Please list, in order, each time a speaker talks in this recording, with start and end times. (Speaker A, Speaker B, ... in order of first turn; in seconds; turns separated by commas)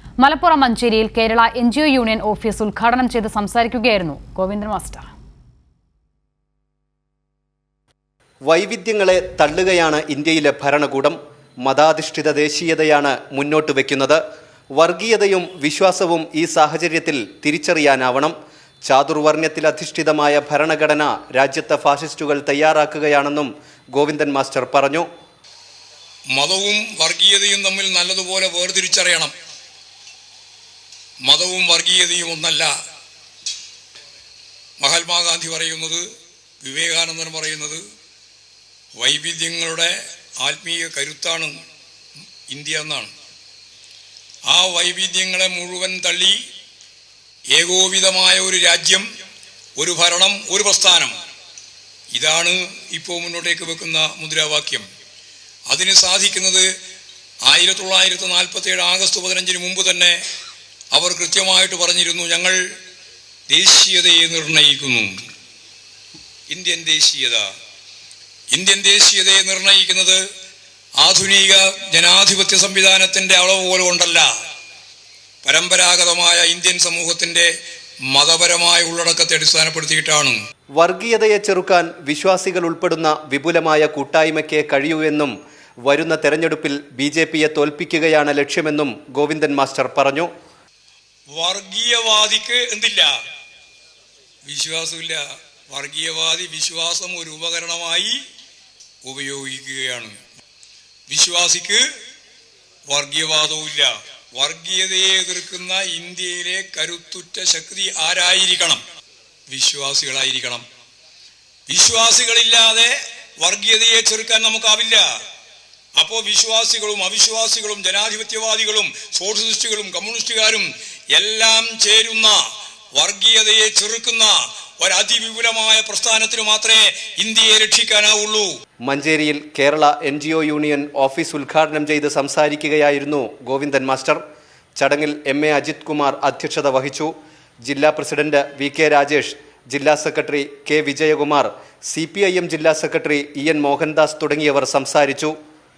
Speaker A: 0.2-5.0, Speaker B: 8.5-14.2, Speaker B: 14.8-18.3, Speaker B: 18.9-25.1, Speaker C: 26.4-29.3, Speaker C: 31.2-32.7, Speaker C: 34.8-36.0, Speaker C: 36.6-37.8, Speaker C: 39.0-41.5, Speaker C: 42.5-43.1, Speaker C: 44.5-46.4, Speaker C: 47.6-49.0, Speaker C: 49.8-51.1, Speaker C: 52.1-54.9, Speaker C: 55.7-56.7, Speaker C: 57.5-60.2, Speaker C: 60.9-62.6, Speaker C: 63.5-65.1, Speaker C: 66.5-67.5, Speaker C: 68.5-70.2, Speaker C: 71.0-74.3, Speaker C: 75.4-77.5, Speaker C: 78.1-80.4, Speaker B: 80.8-85.3, Speaker B: 85.9-90.3, Speaker C: 91.3-93.1, Speaker C: 94.5-98.2, Speaker C: 99.0-100.2, Speaker C: 101.1-101.8, Speaker C: 102.9-108.8, Speaker C: 109.5-110.6, Speaker C: 111.7-115.0, Speaker C: 116.0-122.3, Speaker C: 123.0-128.5, Speaker B: 128.8-134.2, Speaker B: 134.8-137.1, Speaker B: 137.7-145.3